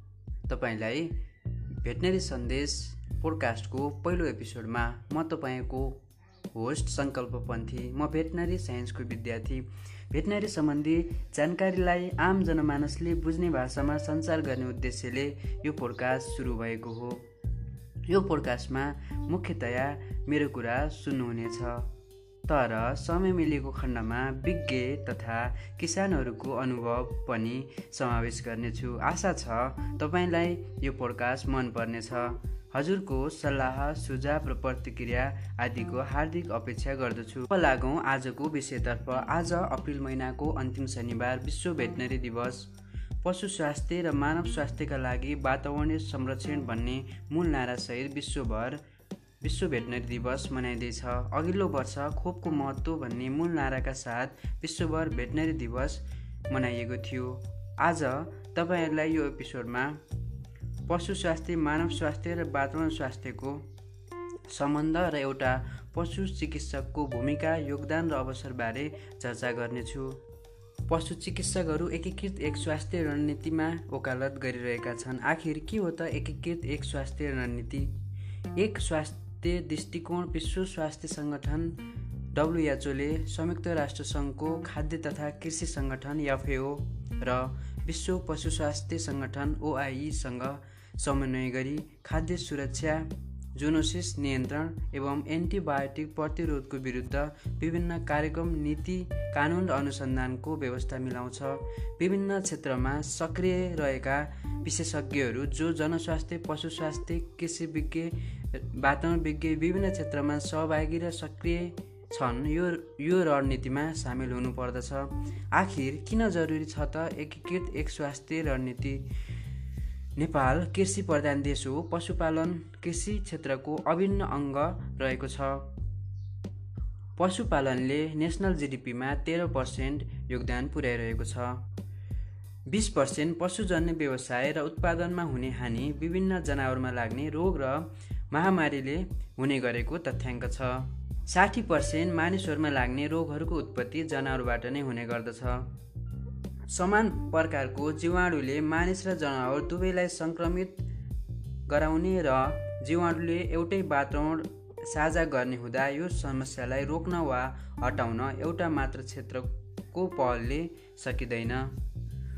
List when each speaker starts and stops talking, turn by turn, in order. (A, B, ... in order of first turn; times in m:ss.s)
0:00.5-0:01.1 A
0:01.8-0:06.0 A
0:06.5-0:17.2 A
0:18.1-0:21.9 A
0:22.5-0:42.7 A
0:43.2-0:48.8 A
0:49.4-1:00.0 A
1:00.9-1:03.6 A
1:04.5-1:10.2 A
1:10.9-1:17.9 A
1:18.6-1:21.8 A
1:22.3-1:59.1 A
2:00.2-2:05.7 A
2:07.2-2:11.6 A
2:12.7-2:25.7 A
2:26.7-2:30.8 A
2:31.7-2:41.7 A